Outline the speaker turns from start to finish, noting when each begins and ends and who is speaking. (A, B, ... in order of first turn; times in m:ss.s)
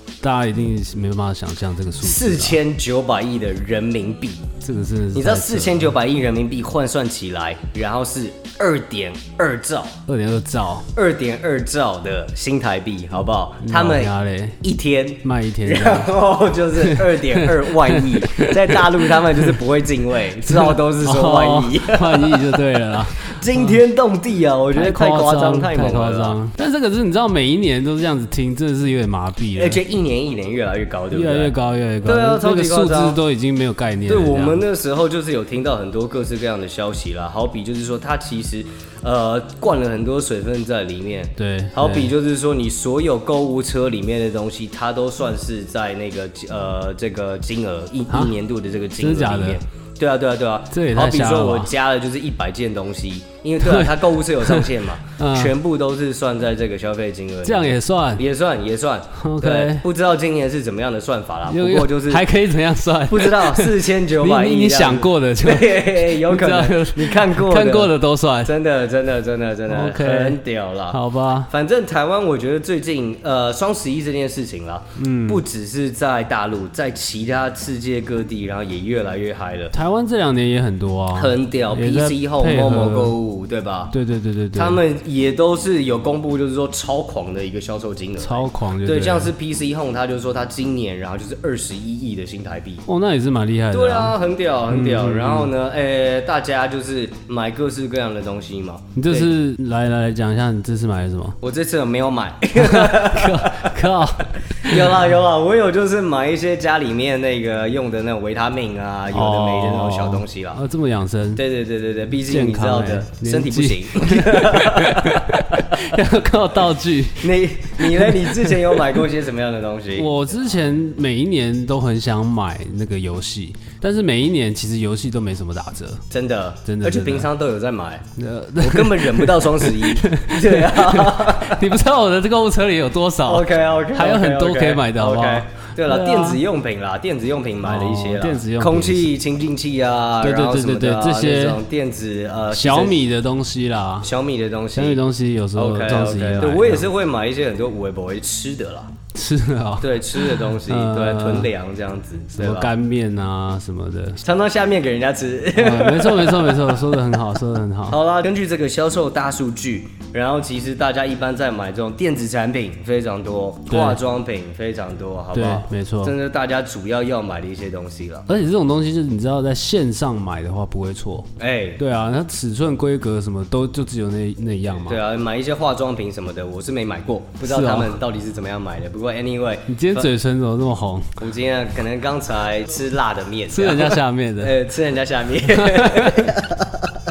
0:00.2-0:02.6 A
0:02.0-0:04.5 B
0:04.6-0:05.9 A
0:05.1-0:10.0 B
0:10.1-0:10.9 A
0:10.9-0:22.6 B
0:13.6-0:14.6 A
0:15.2-0:16.2 A
0:16.7-0:19.6 A
0:20.4-0:23.8 A
0:23.3-0:26.4 B
0:24.7-0:29.8 A
0:29.6-0:31.5 B
0:31.1-0:34.6 A
0:32.0-0:33.2 B
0:34.0-1:02.2 B
0:41.4-0:42.1 A
0:49.0-0:49.6 A
0:50.7-0:51.7 A
0:53.6-0:55.5 A
0:57.4-0:58.2 A
0:59.2-0:59.8 A
1:01.5-1:08.5 A
1:03.1-1:19.7 B
1:09.7-1:11.5 A
1:15.0-1:15.4 A
1:19.7-1:23.2 A
1:21.1-1:23.9 B
1:23.9-1:24.8 A
1:24.5-1:32.8 B
1:28.2-1:29.3 A
1:32.9-1:34.2 A
1:33.7-1:39.3 B
1:34.7-1:35.5 A
1:38.9-1:41.4 A
1:41.4-1:50.6 B
1:42.6-1:45.0 A
1:49.1-1:51.4 A
1:51.4-1:55.8 B
1:52.1-1:59.0 A
1:57.2-2:00.1 B
1:59.9-2:06.0 A
2:06.1-2:08.0 B
2:06.6-2:07.3 A
2:08.2-2:16.4 A
2:08.6-2:11.6 B
2:13.2-2:23.0 B
2:17.6-2:19.1 A
2:20.2-2:21.6 A
2:22.5-2:24.1 A
2:24.0-2:25.0 B
2:24.7-2:26.9 A
2:25.5-2:28.9 B
2:29.1-2:31.5 A
2:29.8-2:32.7 B
2:32.3-2:34.2 A
2:34.2-2:36.7 B
2:35.5-2:38.0 A
2:37.9-2:48.3 B
2:43.7-2:44.0 A
2:45.3-2:46.2 A
2:48.3-2:55.0 A
2:51.4-2:51.8 B
2:54.8-3:00.1 B
2:57.4-2:58.0 A
2:59.7-3:01.2 A
3:01.2-3:06.9 B
3:03.5-3:04.6 A
3:05.4-3:06.4 A